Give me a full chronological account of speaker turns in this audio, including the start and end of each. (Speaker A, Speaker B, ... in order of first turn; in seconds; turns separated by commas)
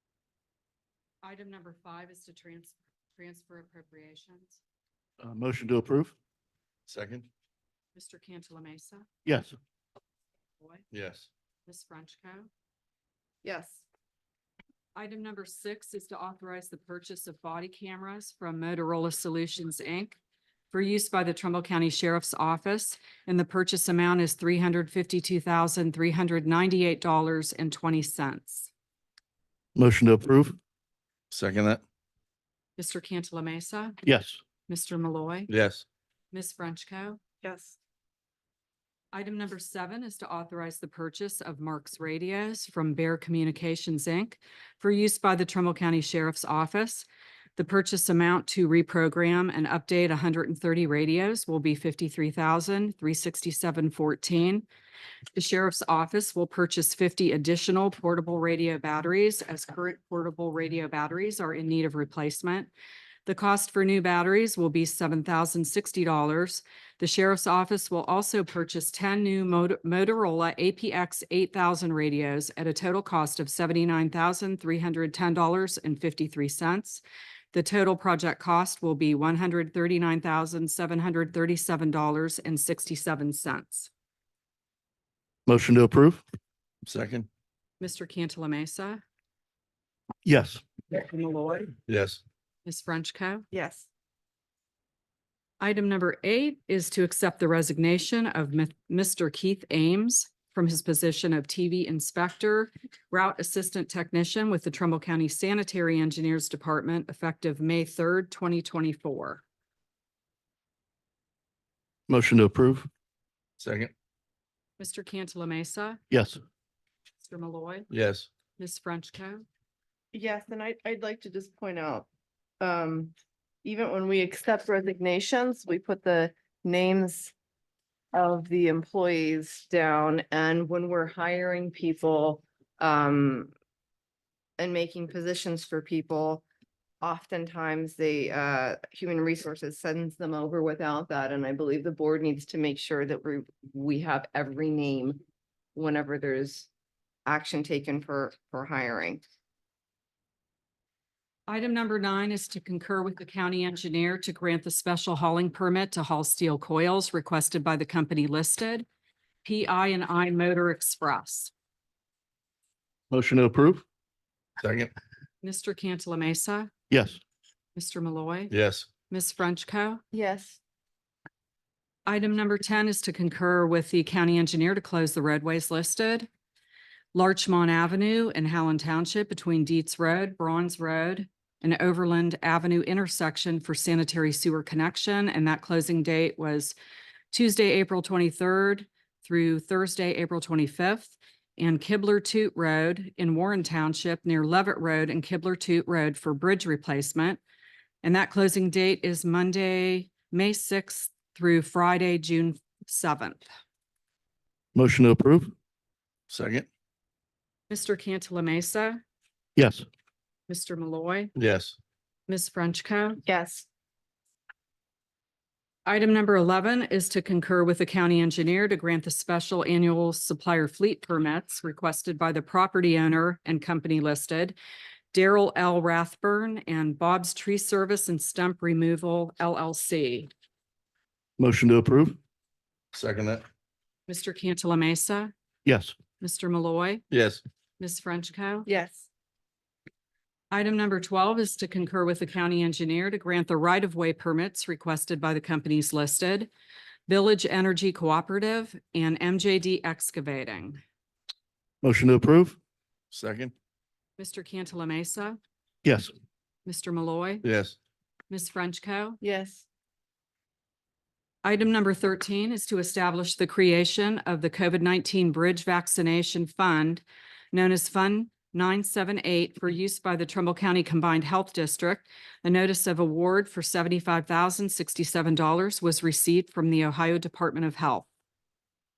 Speaker A: 1.2-4.6, Speaker B: 5.2-6.1, Speaker C: 6.9-7.3, Speaker A: 7.9-9.1, Speaker B: 9.2-9.6, Speaker C: 10.9-11.3, Speaker A: 11.7-12.5, Speaker D: 13.4-13.8, Speaker A: 14.9-20.2, Speaker A: 20.7-28.7, Speaker B: 29.7-30.6, Speaker C: 31.3-31.8, Speaker A: 32.8-34.0, Speaker B: 34.0-34.4, Speaker A: 34.7-35.5, Speaker C: 35.5-35.8, Speaker A: 36.3-37.2, Speaker D: 37.4-37.8, Speaker A: 39.1-54.6, Speaker A: 55.3-62.7, Speaker A: 63.2-83.9, Speaker B: 85.5-86.2, Speaker C: 86.8-87.3, Speaker A: 87.8-89.0, Speaker B: 90.2-90.6, Speaker A: 90.9-91.7, Speaker C: 91.9-92.2, Speaker A: 92.6-93.5, Speaker D: 93.5-93.9, Speaker A: 95.6-109.4, Speaker B: 112.1-112.9, Speaker C: 113.6-113.9, Speaker A: 114.8-116.0, Speaker B: 116.1-116.4, Speaker A: 117.2-117.9, Speaker C: 117.9-118.3, Speaker A: 118.6-119.5, Speaker D: 120.1-122.1, Speaker D: 122.6-123.1, Speaker D: 123.6-127.3, Speaker D: 128.1-133.5, Speaker D: 134.6-136.4, Speaker D: 137.0-145.2, Speaker D: 145.7-146.7, Speaker D: 147.2-149.2, Speaker A: 151.5-158.8, Speaker A: 159.4-161.5, Speaker B: 163.1-163.8, Speaker C: 164.6-164.9, Speaker A: 165.4-166.7, Speaker B: 166.9-167.2, Speaker A: 167.7-168.5, Speaker C: 168.5-168.8, Speaker A: 169.1-170.0, Speaker D: 170.1-170.6, Speaker A: 172.1-176.3, Speaker A: 177.1-186.8, Speaker A: 187.3-197.4, Speaker A: 198.0-203.5, Speaker B: 204.7-205.5, Speaker C: 206.3-206.7, Speaker A: 207.7-209.0, Speaker B: 209.6-209.8, Speaker A: 210.5-211.3, Speaker C: 211.3-211.8, Speaker A: 212.3-213.2, Speaker D: 213.2-213.7, Speaker A: 215.8-224.6, Speaker A: 225.1-230.3, Speaker B: 231.4-232.2, Speaker C: 232.9-233.4, Speaker A: 234.1-235.3, Speaker B: 235.6-235.9, Speaker A: 236.2-237.0, Speaker C: 237.1-237.4, Speaker A: 237.8-238.7, Speaker D: 238.7-239.1, Speaker A: 240.5-246.5, Speaker A: 247.1-250.8, Speaker B: 251.8-252.6, Speaker C: 253.1-253.5, Speaker A: 254.2-255.4, Speaker B: 255.8-256.1, Speaker A: 256.6-257.4, Speaker C: 257.4-257.8, Speaker A: 258.3-259.2, Speaker D: 259.2-259.6, Speaker A: 261.4-278.1